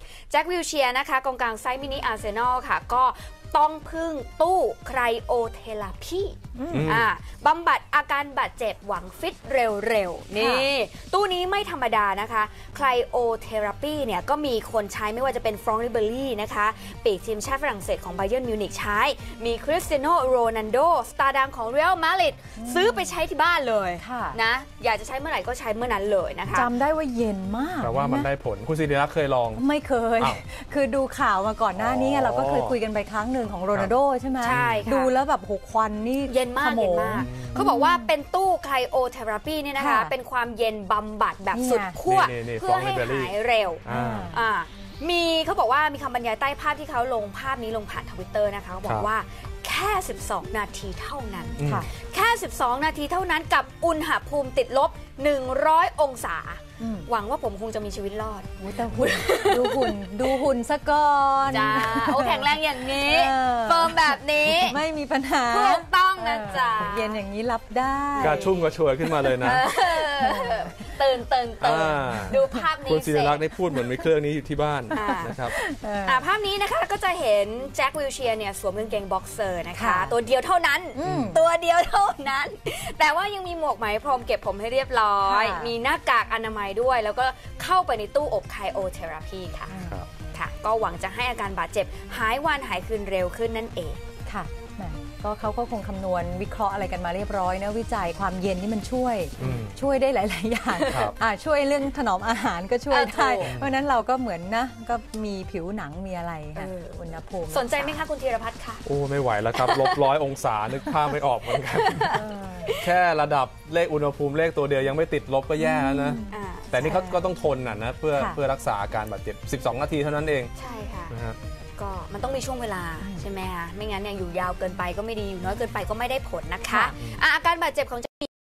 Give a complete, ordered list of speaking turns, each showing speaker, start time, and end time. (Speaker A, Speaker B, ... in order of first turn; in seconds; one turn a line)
Speaker A: 0.3-26.7
Speaker B: 6.5-7.0
Speaker C: 6.7-7.1
Speaker B: 10.3-10.7
Speaker B: 22.6-23.2
Speaker B: 24.0-24.4
Speaker B: 26.5-28.3
Speaker C: 27.8-29.6
Speaker B: 29.6-38.1
Speaker C: 31.7-32.8
Speaker C: 33.7-34.9
Speaker A: 34.4-35.1
Speaker A: 36.2-60.4
Speaker C: 37.1-37.6
Speaker B: 39.8-40.1
Speaker B: 41.5-42.0
Speaker C: 42.0-44.3
Speaker B: 43.9-44.4
Speaker C: 51.6-51.9
Speaker B: 51.6-51.9
Speaker B: 56.8-57.1
Speaker B: 58.6-68.4
Speaker A: 61.5-64.8
Speaker A: 65.5-67.2
Speaker A: 68.2-68.7
Speaker C: 68.2-69.7
Speaker B: 69.3-70.7
Speaker A: 69.4-73.5
Speaker C: 71.6-75.5
Speaker B: 72.1-72.6
Speaker A: 74.9-75.3
Speaker B: 74.9-76.2
Speaker A: 76.0-89.8
Speaker B: 79.8-80.1
Speaker B: 81.0-81.4
Speaker C: 81.0-81.4
Speaker B: 85.2-85.7
Speaker B: 89.7-90.0
Speaker A: 90.3-94.0
Speaker B: 94.3-108.0
Speaker C: 99.4-99.8
Speaker A: 100.7-101.1
Speaker C: 100.9-101.1
Speaker A: 102.9-103.5
Speaker C: 103.4-103.7
Speaker A: 106.5-108.8
Speaker C: 108.8-112.2
Speaker A: 109.5-110.1
Speaker A: 110.8-112.9
Speaker B: 112.1-112.7
Speaker C: 112.8-120.5
Speaker B: 115.6-117.3
Speaker A: 116.3-117.0
Speaker B: 118.1-118.4
Speaker A: 120.5-121.2
Speaker C: 121.1-121.4
Speaker A: 121.8-128.3
Speaker B: 126.7-126.9
Speaker C: 127.0-127.2